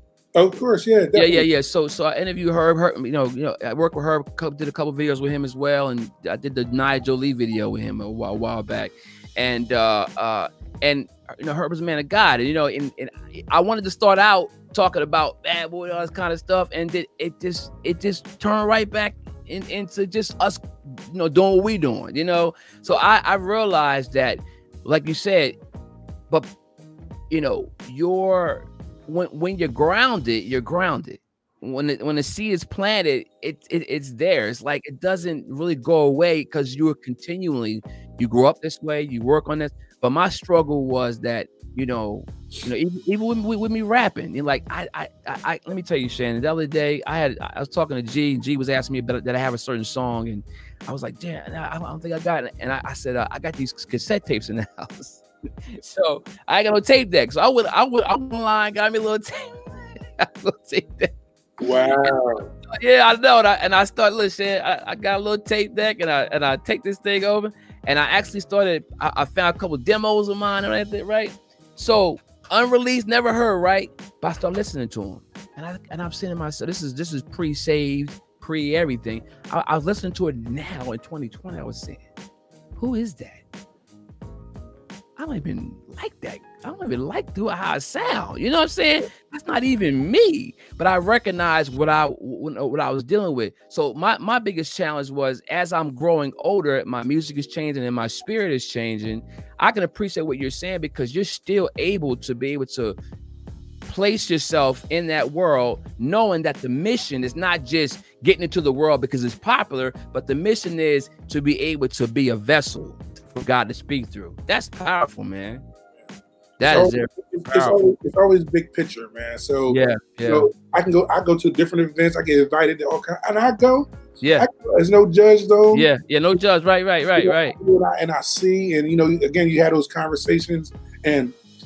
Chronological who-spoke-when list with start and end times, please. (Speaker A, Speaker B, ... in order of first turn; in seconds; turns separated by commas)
Speaker A: 0.4-1.5, Speaker B: 1.1-25.6, Speaker B: 27.3-61.1, Speaker A: 61.6-62.5, Speaker B: 61.8-82.0, Speaker B: 82.8-83.4, Speaker B: 85.2-103.0, Speaker B: 103.9-115.6, Speaker B: 116.6-117.9, Speaker A: 116.6-125.9, Speaker B: 119.7-120.5, Speaker B: 124.2-124.5, Speaker B: 125.7-127.6, Speaker A: 127.2-131.3